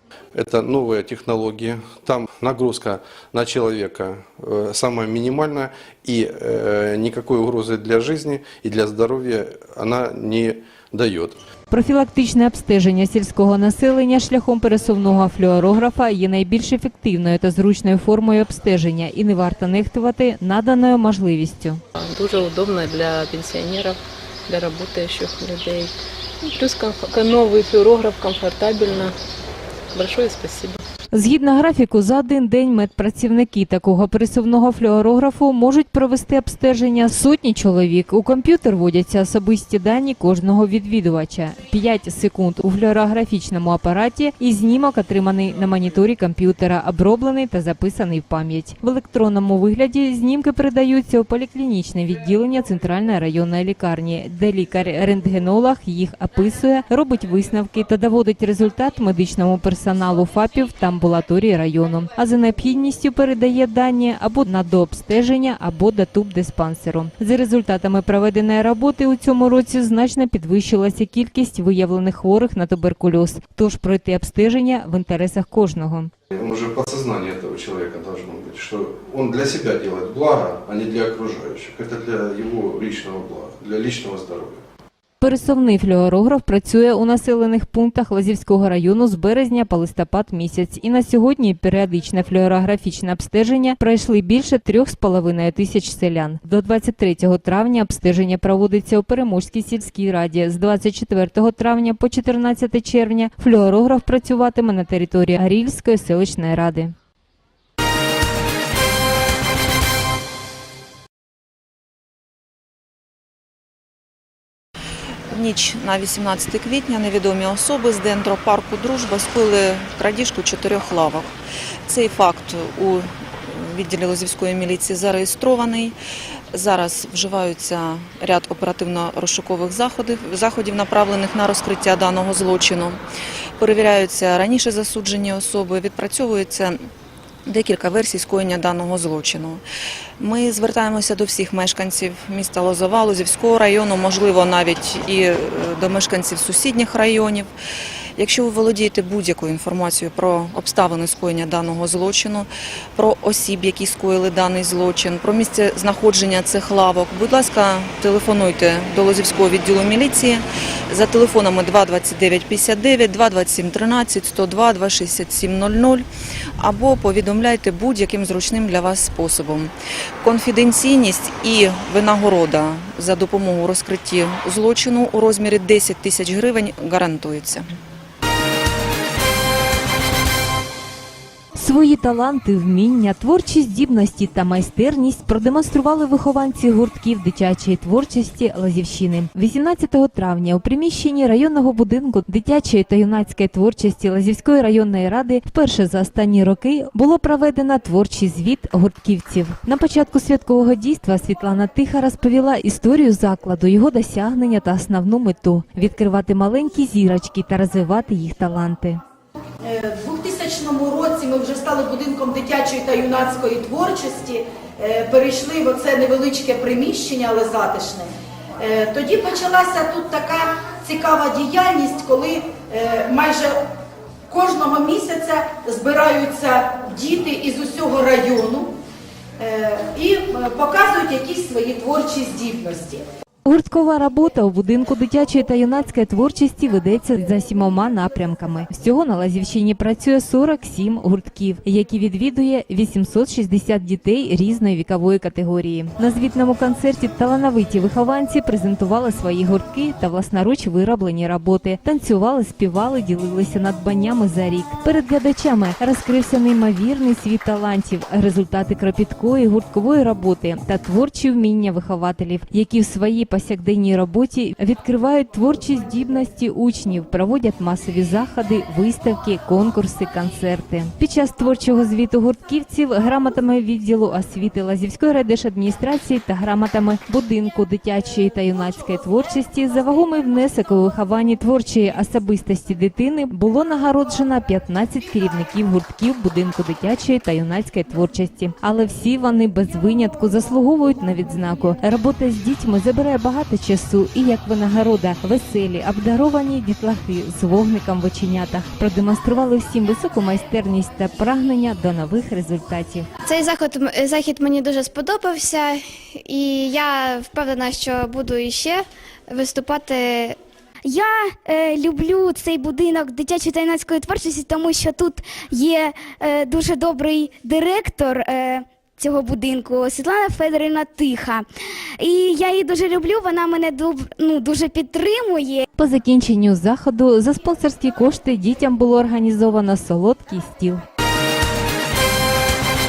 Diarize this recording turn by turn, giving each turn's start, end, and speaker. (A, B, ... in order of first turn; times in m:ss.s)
0:00.4-0:11.4 A
0:11.7-0:21.8 B
0:22.0-0:25.9 C
0:26.4-0:29.1 C
0:29.9-0:30.8 C
0:31.1-1:16.1 B
1:16.3-1:24.6 A
1:25.2-1:46.9 B
1:55.3-2:01.3 D
2:01.9-2:06.0 D
2:06.5-2:13.0 D
2:13.6-2:16.9 D
2:17.5-2:19.6 D
2:20.2-2:27.5 D
2:28.2-2:46.1 D
2:46.6-2:57.7 D
3:01.6-3:29.0 B
3:29.6-3:43.6 E
3:44.3-3:48.7 E
3:49.4-3:53.0 E
3:53.4-5:03.1 B
5:03.2-5:10.4 F
5:10.8-5:21.5 G
5:22.0-5:25.6 G
5:25.8-5:30.8 B